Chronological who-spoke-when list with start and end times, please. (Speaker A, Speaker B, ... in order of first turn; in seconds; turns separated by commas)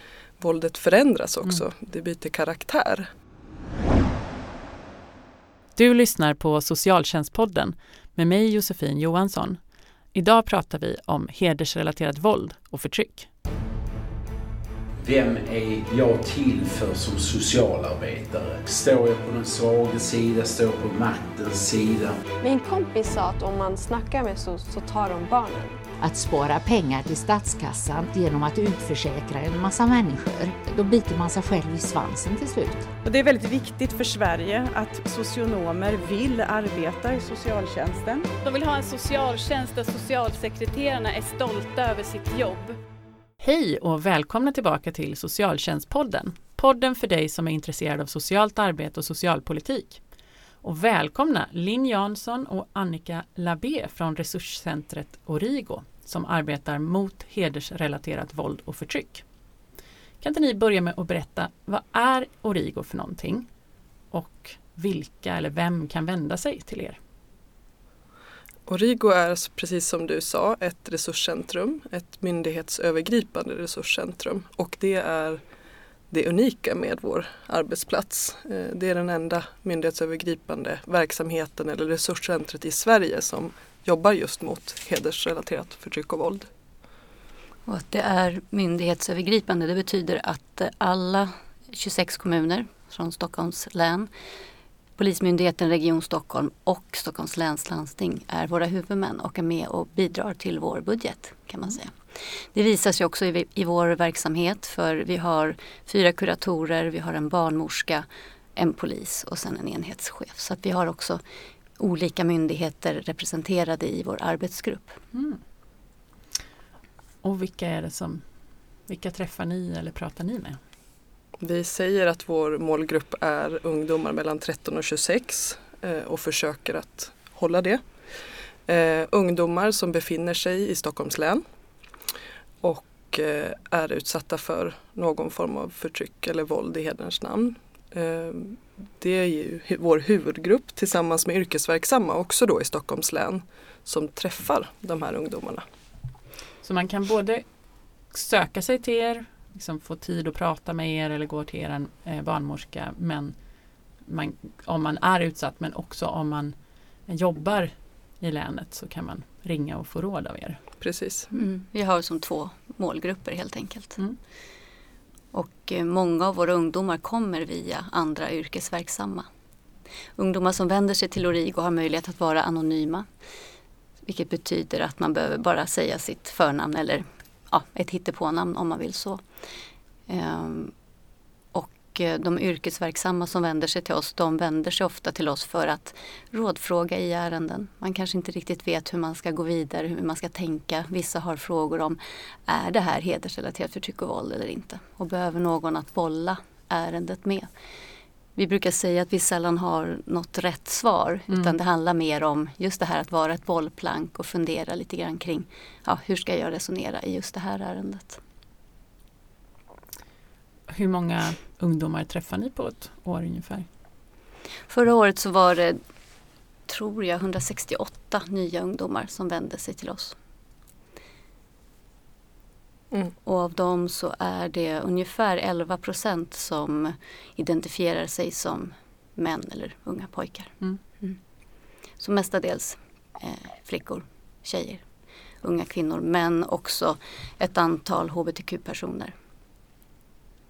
Speaker A: 0.4-3.1, Speaker B: 5.8-13.3, Speaker C: 15.0-22.2, Speaker D: 22.4-25.7, Speaker E: 26.0-32.9, Speaker F: 33.0-38.3, Speaker G: 38.4-42.8, Speaker B: 43.4-50.0, Speaker B: 50.6-59.2, Speaker B: 60.2-63.5, Speaker B: 64.1-67.0, Speaker A: 68.7-75.4, Speaker A: 76.1-86.5, Speaker H: 87.7-94.1, Speaker H: 95.0-111.2, Speaker H: 111.8-115.0, Speaker B: 115.1-115.4, Speaker B: 117.2-120.6, Speaker A: 121.4-127.8, Speaker A: 128.7-131.4, Speaker A: 132.6-145.6, Speaker B: 146.6-153.4, Speaker B: 153.9-160.6, Speaker A: 160.8-161.3, Speaker H: 161.3-164.0, Speaker H: 165.3-169.3, Speaker H: 170.2-173.1, Speaker H: 174.0-179.2, Speaker H: 180.1-180.7, Speaker H: 181.5-197.5, Speaker H: 198.3-208.2, Speaker B: 201.3-201.5, Speaker B: 210.7-213.7, Speaker H: 214.7-215.8, Speaker H: 216.7-220.2, Speaker H: 223.2-231.2, Speaker H: 232.0-234.8, Speaker H: 235.4-239.1